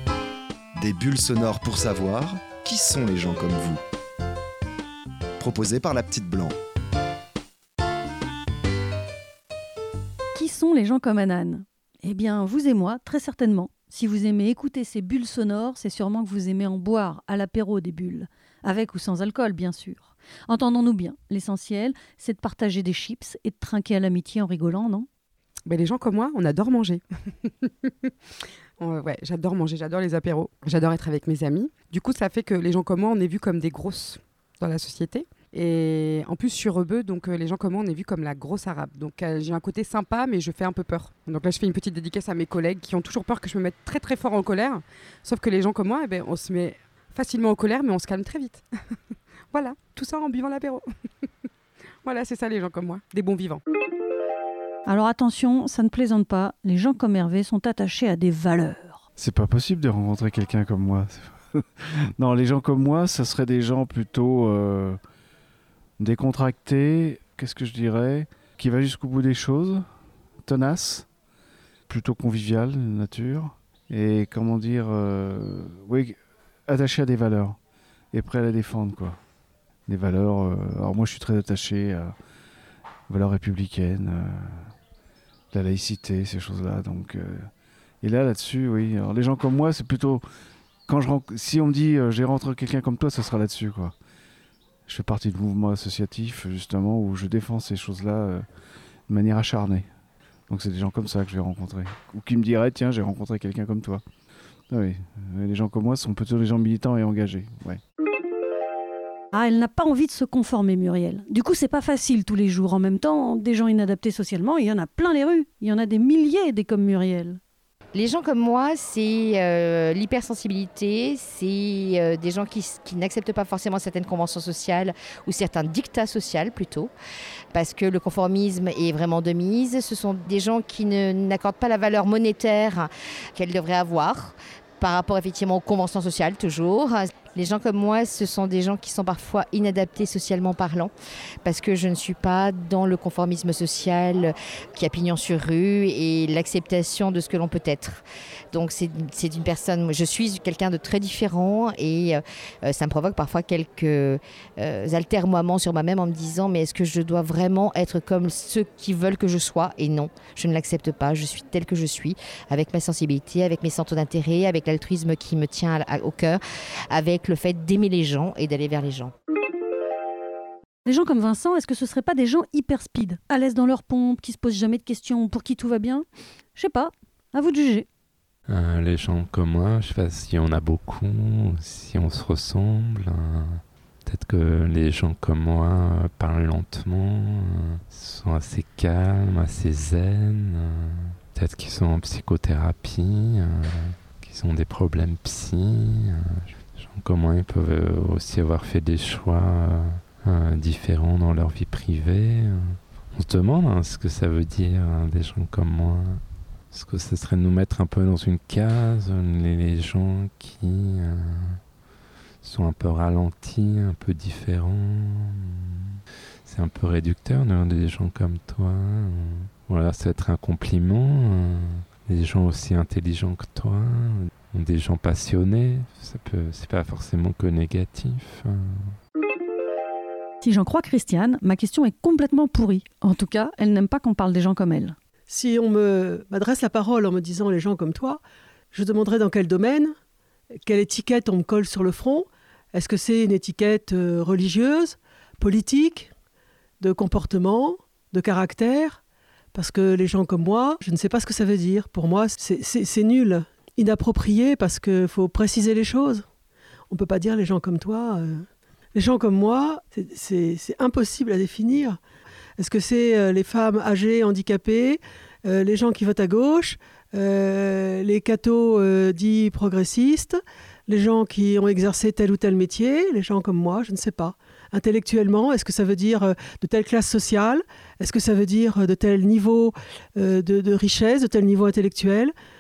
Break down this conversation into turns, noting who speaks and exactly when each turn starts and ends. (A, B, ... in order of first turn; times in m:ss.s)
0:00.8-0:03.8 A
0:05.4-0:06.6 A
0:10.3-0:25.1 B
0:25.7-0:27.7 C
0:28.8-0:48.6 C
0:49.5-0:50.8 C
0:52.0-0:53.6 C
0:54.9-0:59.0 B
0:59.2-1:05.0 D
1:06.0-1:09.8 D
1:10.4-1:11.1 D
1:11.9-1:17.6 D
1:18.1-1:19.2 D
1:19.9-1:22.1 D
1:23.1-1:24.7 D
1:25.5-1:27.5 D
1:28.0-1:30.2 D
1:30.9-1:33.9 D
1:34.9-1:38.4 D
1:39.1-1:39.9 D
1:40.5-1:44.0 D
1:44.7-1:47.8 D
1:49.3-1:57.4 B
1:57.9-2:06.9 E
2:07.5-2:20.9 E
2:21.4-2:28.0 E
2:28.5-2:49.1 E
2:50.8-2:57.9 B
2:58.5-3:26.2 F
3:26.7-3:31.6 F
3:32.4-3:35.3 F
3:36.5-3:48.9 F
3:50.4-3:55.0 B
3:55.3-3:58.2 G
3:58.7-4:00.0 G
4:00.7-4:06.1 G
4:06.8-4:09.0 G
4:09.5-4:16.2 G
4:16.9-4:22.0 G
4:22.6-4:42.3 G